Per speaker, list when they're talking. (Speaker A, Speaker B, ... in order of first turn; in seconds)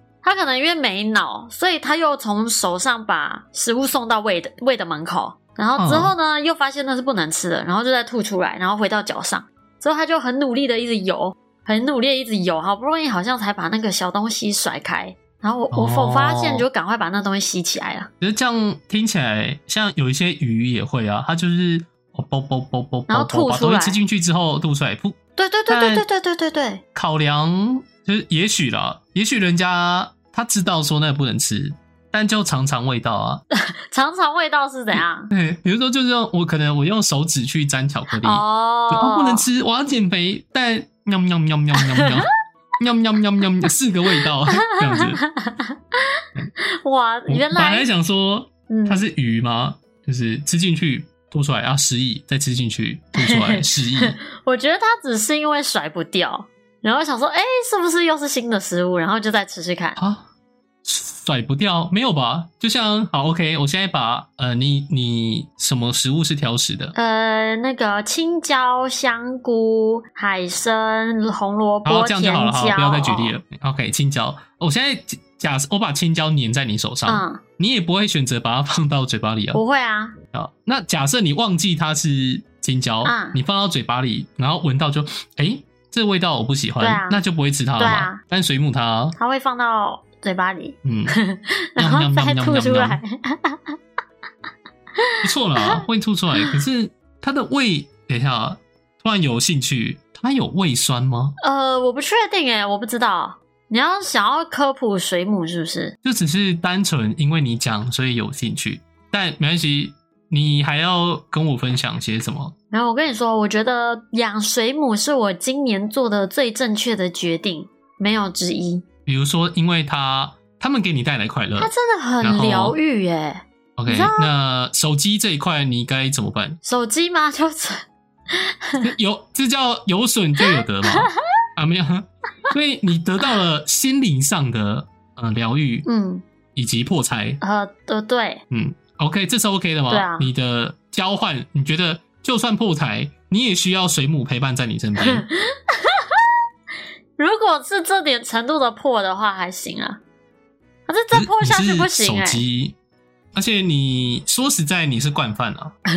Speaker A: 0.2-18.1, 23.1-24.0, 25.4-26.8, 33.5-35.3, 38.2-39.4, 41.8-42.1, 44.2-47.9, 48.7-49.0, 53.2-60.0, 67.0-73.4, 77.1-77.4, 79.5-80.1, 83.0-83.4, 86.8-87.2, 87.8-88.2, 89.2-93.8, 95.0-95.8, 101.4-106.0, 112.7-118.8, 121.6-124.3, 126.6-128.9, 130.4-131.1, 135.9-136.2, 137.4-138.4, 139.9-140.3, 145.0-146.2, 147.2-150.0, 150.9-152.4
Speaker B: 5.8-6.1, 15.7-16.7, 18.2-25.2, 25.7-26.1, 26.9-33.4, 34.9-42.3, 42.8-45.2, 47.3-54.2, 60.0-60.3, 60.9-67.0, 71.8-79.6, 80.3-89.2, 90.8-91.2, 91.8-93.0, 95.2-101.3, 106.0-112.5, 119.1-122.8, 123.8-126.6, 128.8-135.8, 136.6-137.4, 138.5-145.3, 151.1-152.8, 153.3-155.7